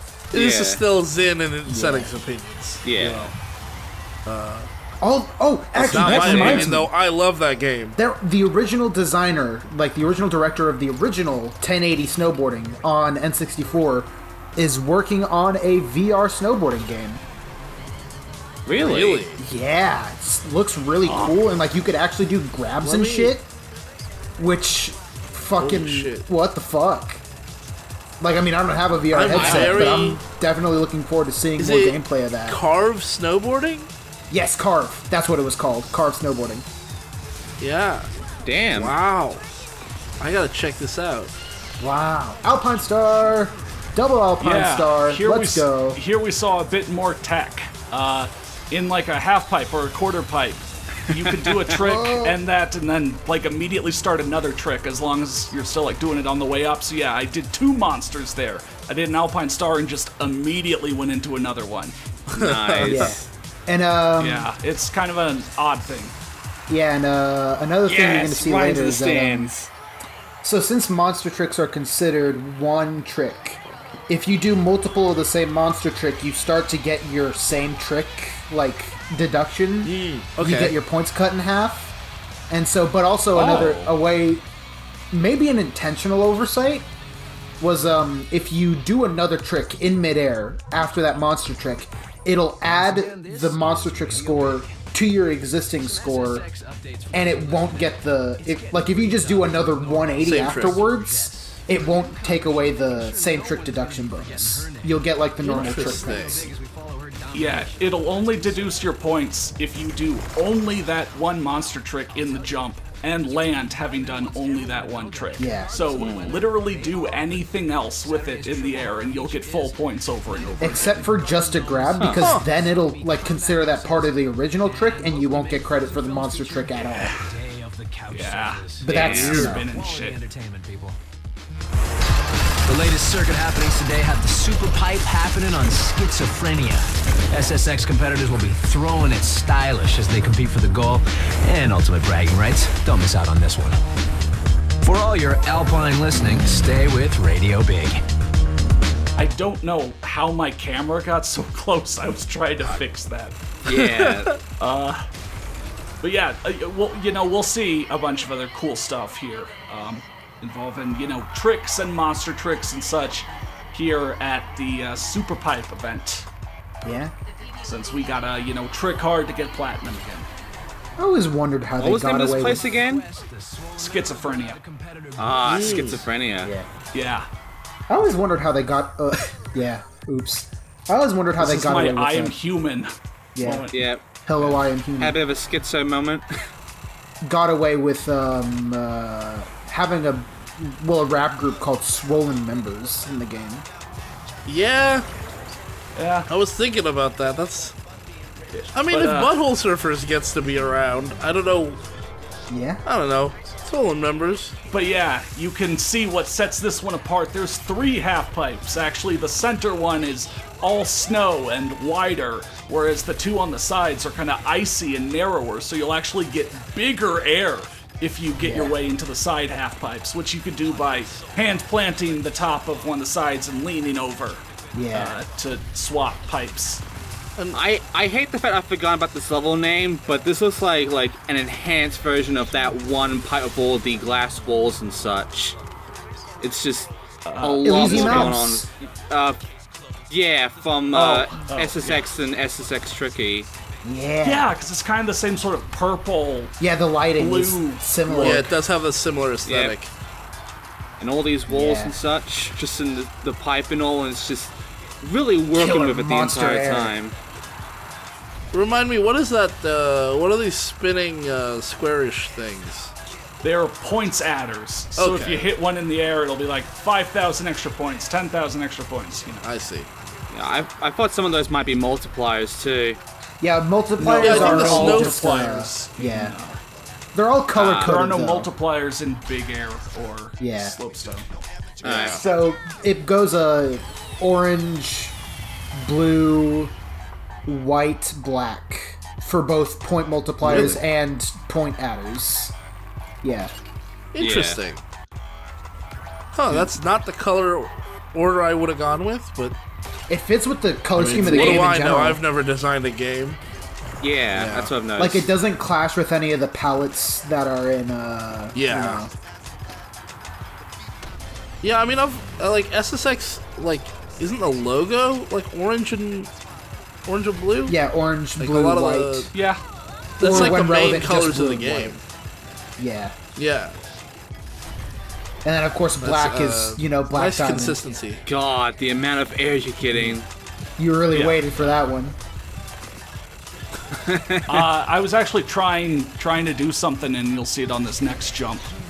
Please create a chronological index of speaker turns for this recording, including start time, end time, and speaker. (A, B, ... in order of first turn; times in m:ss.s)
0:00.3-0:00.8 A
0:00.3-0:03.3 B
0:01.7-0:02.1 C
0:02.8-0:03.3 A
0:04.3-0:04.7 B
0:05.0-0:06.9 C
0:05.8-0:08.0 B
0:05.9-0:06.9 D
0:08.0-0:17.2 C
0:18.7-0:19.2 A
0:18.8-0:19.4 B
0:19.4-0:23.5 C
0:21.0-0:21.4 D
0:22.8-0:23.4 B
0:24.4-0:27.2 C
0:25.6-0:26.3 B
0:28.2-0:32.6 C
0:29.1-0:30.2 B
0:29.3-0:30.0 A
0:31.6-0:33.9 B
0:34.3-0:36.7 C
0:37.6-0:38.1 B
0:38.4-0:39.0 A
0:38.7-0:39.4 B
0:40.2-0:41.3 B
0:41.8-0:46.0 C
0:44.4-1:02.0 D
0:51.8-0:52.4 C
1:02.3-1:03.2 B
1:02.4-1:03.3 A
1:02.8-1:04.5 C
1:04.2-1:06.2 D
1:06.7-1:09.5 C
1:07.9-1:09.7 A
1:10.4-1:21.9 C
1:19.8-1:20.8 B
1:22.5-1:24.4 C
1:23.4-1:23.9 A
1:25.1-1:26.9 C
1:27.6-1:36.4 C
1:32.6-1:34.9 E
1:35.8-1:49.0 E
1:37.1-1:46.5 C
1:40.2-1:40.8 B
1:45.4-1:46.5 B
1:47.3-2:01.1 D
1:52.2-1:52.6 E
1:53.2-2:11.0 E
1:55.4-1:55.7 C
1:56.0-1:56.4 A
2:00.6-2:07.1 C
2:02.0-2:02.3 A
2:02.2-2:02.5 B
2:08.1-2:10.2 D
2:08.8-2:09.7 C
2:08.9-2:09.5 A
2:09.1-2:09.5 B
2:12.7-2:23.8 E
2:24.8-2:28.0 E
2:29.2-2:33.4 D
2:33.6-2:34.4 A
2:33.7-2:34.4 B
2:34.6-2:35.0 D
2:36.0-2:46.3 D
2:46.8-2:47.1 C
2:47.6-2:50.3 D
2:51.0-2:52.7 C
2:51.8-2:53.0 A
2:52.5-2:56.0 E
2:53.8-2:54.6 D
2:55.2-2:56.5 A
2:55.4-2:56.0 B
2:56.4-2:56.7 C
2:56.9-2:57.3 D
2:57.9-3:02.4 C
3:01.4-3:04.6 D
3:03.4-3:03.7 C
3:03.7-3:04.0 A
3:04.3-3:05.2 C
3:05.0-3:06.3 A
3:07.2-3:13.7 C
3:14.5-3:15.1 B
3:16.0-3:16.3 D
3:16.3-3:17.8 B
3:18.5-3:19.3 D
3:18.7-3:21.8 B
3:22.5-3:22.8 C
3:22.8-3:24.6 B
3:24.7-3:46.8 D
3:38.4-3:38.8 C
3:44.7-3:45.2 C
3:47.5-3:55.6 A
3:56.4-3:59.4 A
3:57.2-3:58.4 D
3:57.6-3:58.7 C
4:00.1-4:03.5 A
4:00.9-4:02.0 D
4:03.8-4:04.5 C
4:04.2-4:06.5 D
4:06.6-4:08.6 C
4:07.2-4:08.5 D
4:08.2-4:09.9 B
4:09.4-4:09.8 A
4:11.0-4:17.2 A
4:11.5-4:12.0 C
4:15.5-4:16.9 C
4:18.5-4:22.9 B
4:23.4-4:29.5 D
4:25.0-4:25.5 B
4:29.4-4:29.9 B
4:30.3-4:33.0 A
4:33.4-4:36.4 C
4:34.0-4:36.6 D
4:34.0-4:35.3 B
4:37.1-4:38.5 C
4:37.5-4:41.3 D
4:40.4-4:40.8 C
4:41.8-4:42.2 A
4:41.8-4:42.2 B
4:42.1-4:45.2 C
4:45.8-4:46.7 C
4:47.5-4:52.6 C
4:50.4-4:50.8 D
4:50.4-4:50.8 B
4:53.2-4:53.5 C
4:54.1-4:54.8 B
4:54.2-4:54.6 A
4:56.3-4:59.6 B
5:00.1-5:02.2 C
5:01.0-5:03.4 B
5:04.0-5:05.3 A
5:04.3-5:04.7 B
5:05.0-5:09.1 C
5:08.6-5:09.1 B
5:11.6-5:16.3 B
5:17.1-5:17.8 B
5:17.7-5:19.3 C
5:18.4-5:19.3 B
5:19.3-5:19.6 D
5:20.2-5:22.0 C
5:20.2-5:22.0 B
5:22.8-5:23.2 C
5:23.4-5:23.8 B
5:25.4-5:27.8 C
5:26.0-5:28.2 B
5:28.3-5:30.3 A
5:30.8-5:32.2 C
5:31.1-5:31.8 D
5:33.9-5:34.6 A
5:34.5-5:38.7 D